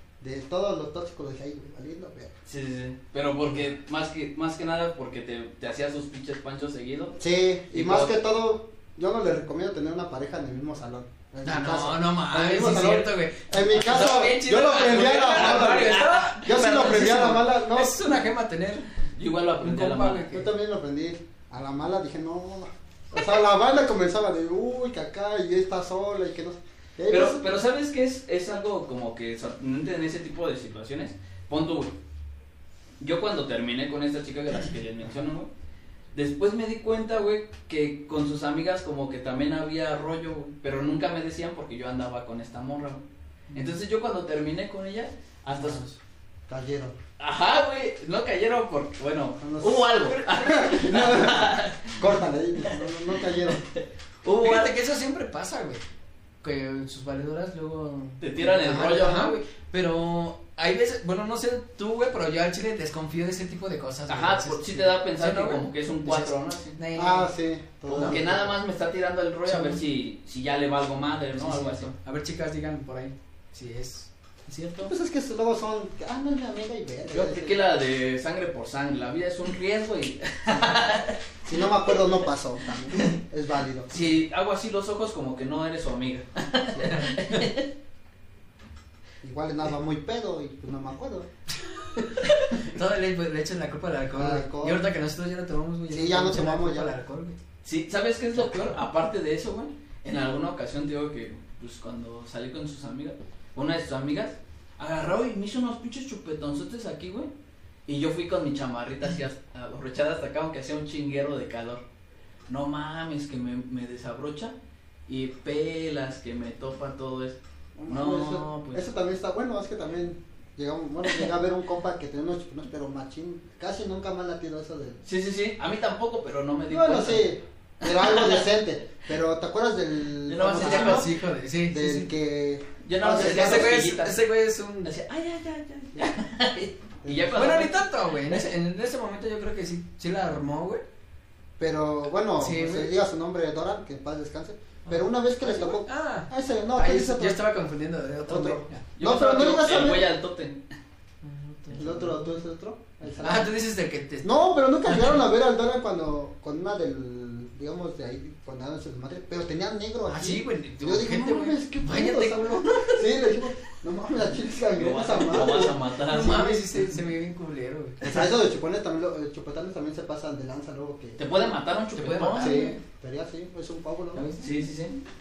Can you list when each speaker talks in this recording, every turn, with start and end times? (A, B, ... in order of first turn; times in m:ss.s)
0:00.2-0:02.3 A
0:02.4-0:07.2 B
0:07.2-0:18.0 A
0:07.7-0:08.2 B
0:11.4-0:18.9 C
0:15.3-0:16.7 B
0:19.1-0:20.3 B
0:19.6-0:20.5 C
0:20.3-0:27.4 A
0:27.1-0:32.0 B
0:33.0-0:35.5 B
0:36.1-0:45.8 B
0:45.5-0:46.0 C
0:46.5-0:47.0 A
0:47.2-0:52.0 B
0:49.4-0:53.6 A
0:53.4-0:54.7 B
0:54.4-0:55.8 C
0:56.4-1:07.3 C
0:58.2-0:59.4 B
1:04.1-1:06.8 B
1:06.9-1:08.5 A
1:07.9-1:11.9 B
1:07.9-1:08.2 C
1:09.4-1:09.8 C
1:11.3-1:14.9 C
1:14.8-1:17.6 A
1:17.1-1:21.2 B
1:21.4-1:23.9 A
1:22.9-1:23.2 B
1:23.9-1:27.7 B
1:26.8-1:27.3 C
1:29.2-1:31.3 A
1:31.8-1:37.4 C
1:34.1-1:34.8 A
1:35.9-1:36.9 A
1:37.6-1:47.3 B
1:47.9-1:51.8 B
1:52.5-1:54.5 B
1:55.1-1:58.8 B
1:57.8-2:05.0 A
2:05.0-2:07.3 B
2:06.7-2:11.1 A
2:07.8-2:08.4 B
2:10.3-2:11.1 B
2:10.6-2:12.1 C
2:11.7-2:13.9 A
2:12.8-2:14.2 B
2:13.1-2:14.9 C
2:14.8-2:18.4 B
2:17.0-2:17.4 A
2:17.3-2:20.8 C
2:21.6-2:27.4 A
2:22.4-2:22.9 C
2:24.9-2:28.8 C
2:28.2-2:30.1 A
2:29.0-2:30.6 B
2:31.2-2:32.3 C
2:31.7-2:33.5 A
2:33.2-2:34.3 C
2:34.2-2:46.8 A
2:40.0-2:43.1 C
2:44.7-2:46.4 B
2:45.6-2:48.3 C
2:48.0-2:51.2 A
2:51.2-2:52.7 B
2:52.0-2:52.8 C
2:52.4-2:54.3 A
2:54.1-2:54.5 C
2:54.4-2:55.0 B